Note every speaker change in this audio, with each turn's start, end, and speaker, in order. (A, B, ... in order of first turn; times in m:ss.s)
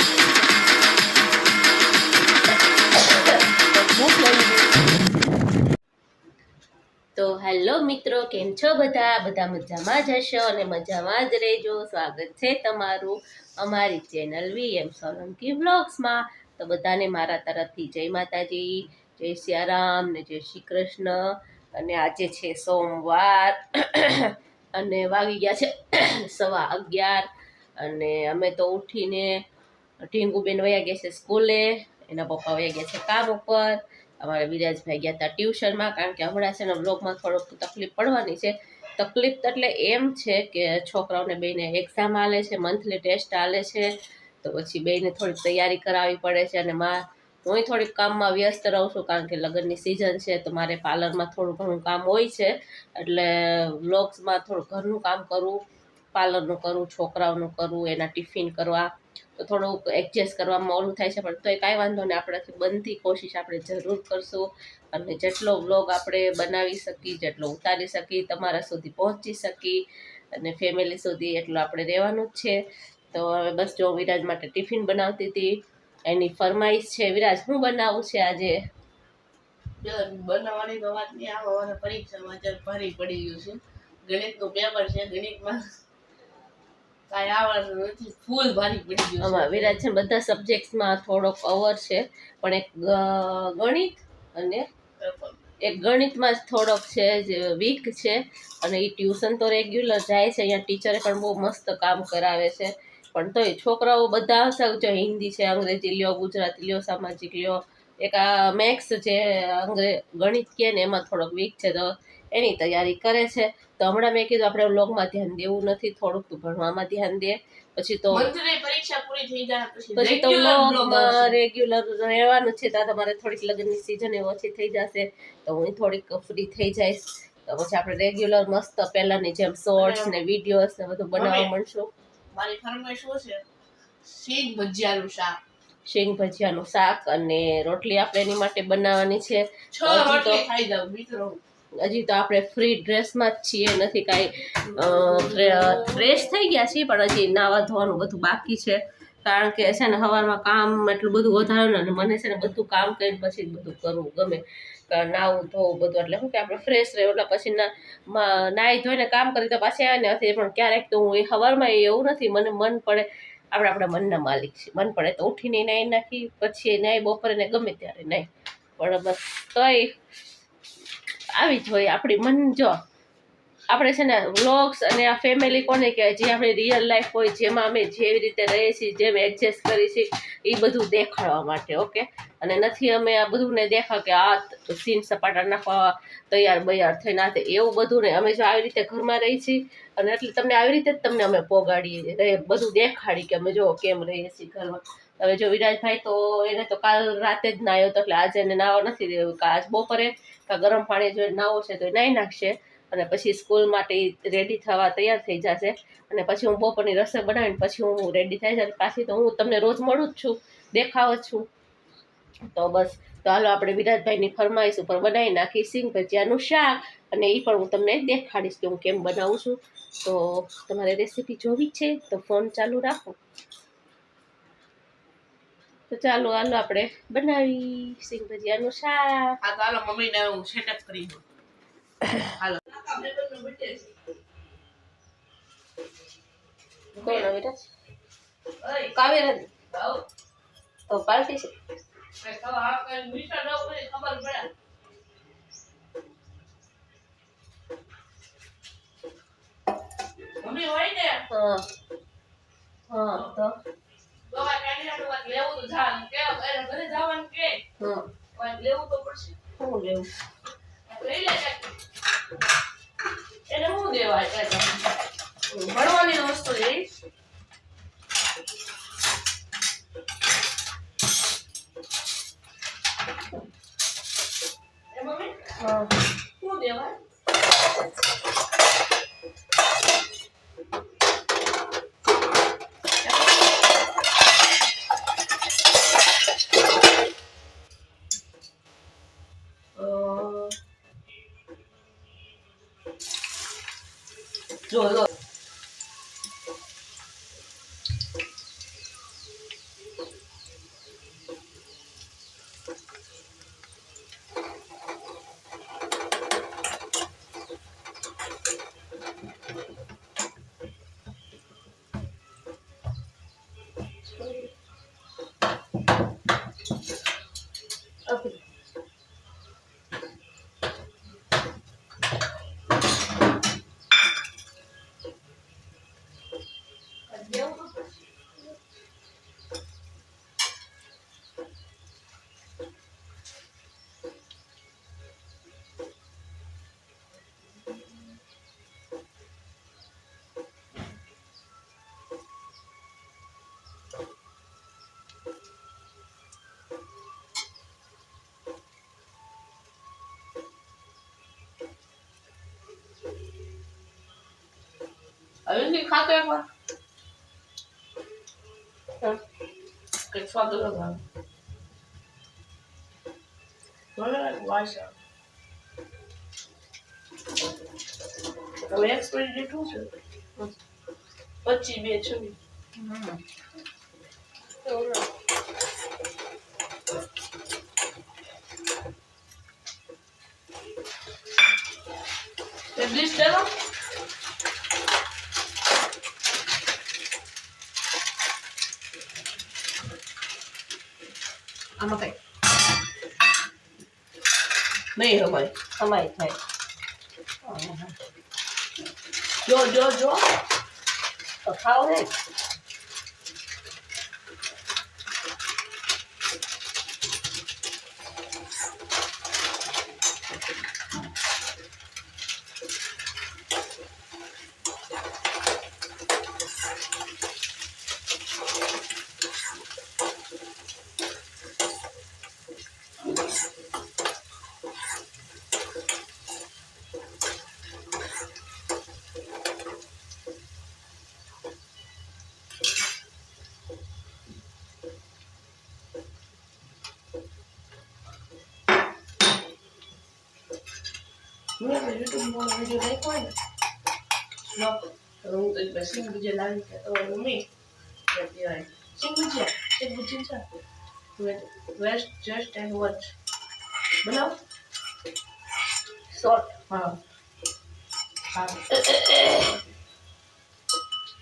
0:03.6-0:04.9 A
0:07.2-0:27.3 B
0:27.8-0:29.4 B
0:30.1-0:43.9 B
0:44.4-0:55.6 B
0:56.1-1:09.8 B
1:10.3-1:12.6 B
1:13.1-1:18.6 B
1:19.8-1:25.6 A
1:27.1-1:29.8 A
1:29.2-1:34.6 B
1:35.0-1:35.4 A
1:35.6-1:58.3 B
1:58.1-2:01.4 A
2:00.0-2:11.9 B
2:09.8-2:10.1 A
2:11.1-2:11.5 A
2:12.3-2:13.4 A
2:14.0-2:15.4 A
2:15.8-2:20.4 B
2:19.7-2:21.4 A
2:21.8-2:50.0 B
2:24.7-2:26.1 A
2:51.3-2:52.8 B
2:53.7-3:31.5 B
3:32.5-3:43.2 B
3:45.9-3:49.4 B
3:49.4-3:51.2 A
3:52.1-3:53.9 A
3:56.9-3:57.3 A
3:57.0-3:57.6 B
3:58.6-3:58.9 A
3:58.9-3:59.5 B
3:59.7-4:00.0 A
4:00.9-4:01.5 B
4:02.2-4:04.5 A
4:10.4-4:11.2 A
4:11.3-4:11.7 B
4:12.9-4:13.6 B
4:14.3-4:17.6 A
4:17.8-4:18.1 B
4:18.3-4:19.4 A
4:19.6-4:20.1 B
4:20.9-4:21.7 A
4:23.5-4:24.8 A
4:25.5-4:26.9 A
4:34.9-4:35.6 A
4:35.6-4:35.9 B
4:36.4-4:37.0 A
4:43.0-4:43.3 A
4:49.8-4:50.5 A
4:54.7-4:55.0 A
5:14.2-5:14.5 B
5:18.1-5:18.4 B
5:27.1-5:27.8 A
5:55.5-5:56.4 A
6:00.1-6:01.0 A
6:04.0-6:05.0 A
6:08.7-6:09.9 A
6:11.4-6:12.4 A
6:12.8-6:13.2 B
6:14.6-6:15.0 B
6:22.7-6:23.5 A
6:31.8-6:32.2 B
6:34.9-6:35.5 A
6:35.8-6:36.4 B
6:37.4-6:37.9 B
6:39.4-6:40.2 A
6:41.4-6:42.1 B
7:21.6-7:23.3 A
7:24.5-7:27.5 A
7:28.1-7:30.5 A
7:31.2-7:33.1 A
7:34.0-7:34.3 A
7:36.1-7:36.9 B
7:38.7-7:39.5 A